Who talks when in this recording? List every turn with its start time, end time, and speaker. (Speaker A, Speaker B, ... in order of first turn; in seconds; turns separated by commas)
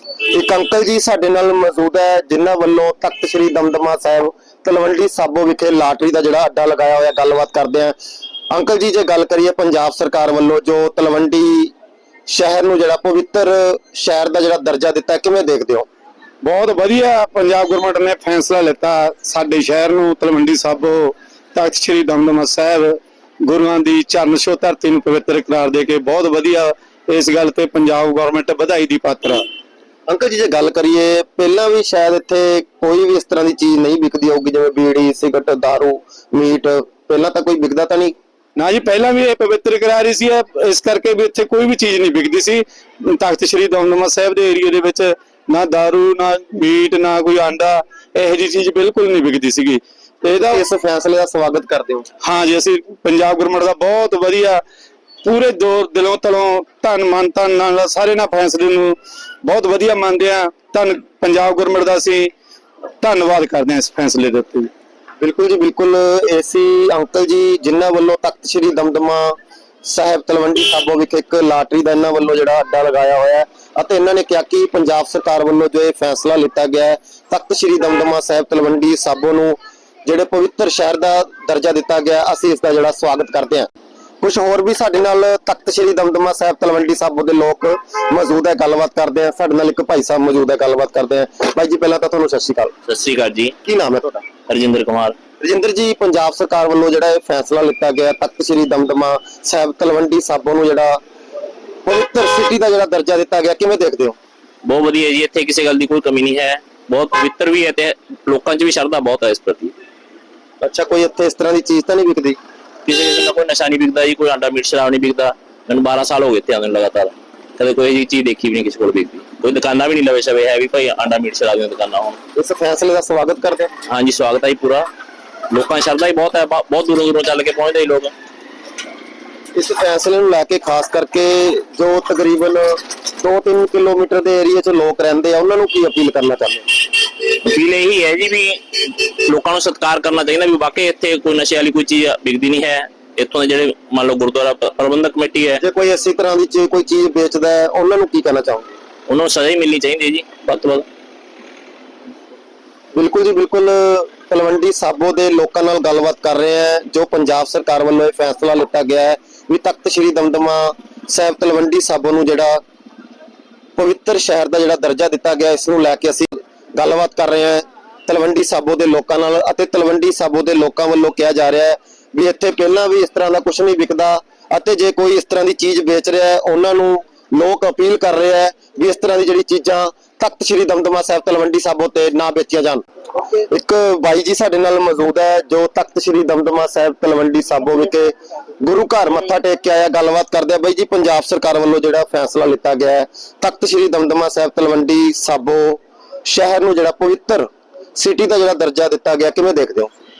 Speaker A: 0.2-7.9, Speaker A: 8.5-11.7, Speaker A: 12.3-15.9, Speaker B: 16.4-29.4, Speaker A: 30.1-38.1, Speaker B: 38.5-50.6, Speaker A: 50.3-52.0, Speaker B: 52.2-54.6, Speaker B: 55.2-62.3, Speaker B: 63.0-64.7, Speaker A: 65.2-83.7, Speaker A: 84.2-92.7, Speaker C: 92.9-93.5, Speaker A: 93.6-94.2, Speaker C: 94.5-95.1, Speaker A: 95.4-101.0, Speaker A: 101.8-104.2, Speaker C: 104.6-109.7, Speaker A: 110.6-112.4, Speaker C: 112.8-122.2, Speaker A: 122.3-123.7, Speaker C: 123.9-124.8, Speaker C: 125.5-128.1, Speaker A: 129.5-136.6, Speaker C: 137.2-145.6, Speaker A: 145.6-148.7, Speaker C: 149.1-150.8, Speaker A: 152.9-162.6, Speaker A: 163.8-182.8, Speaker A: 183.5-199.9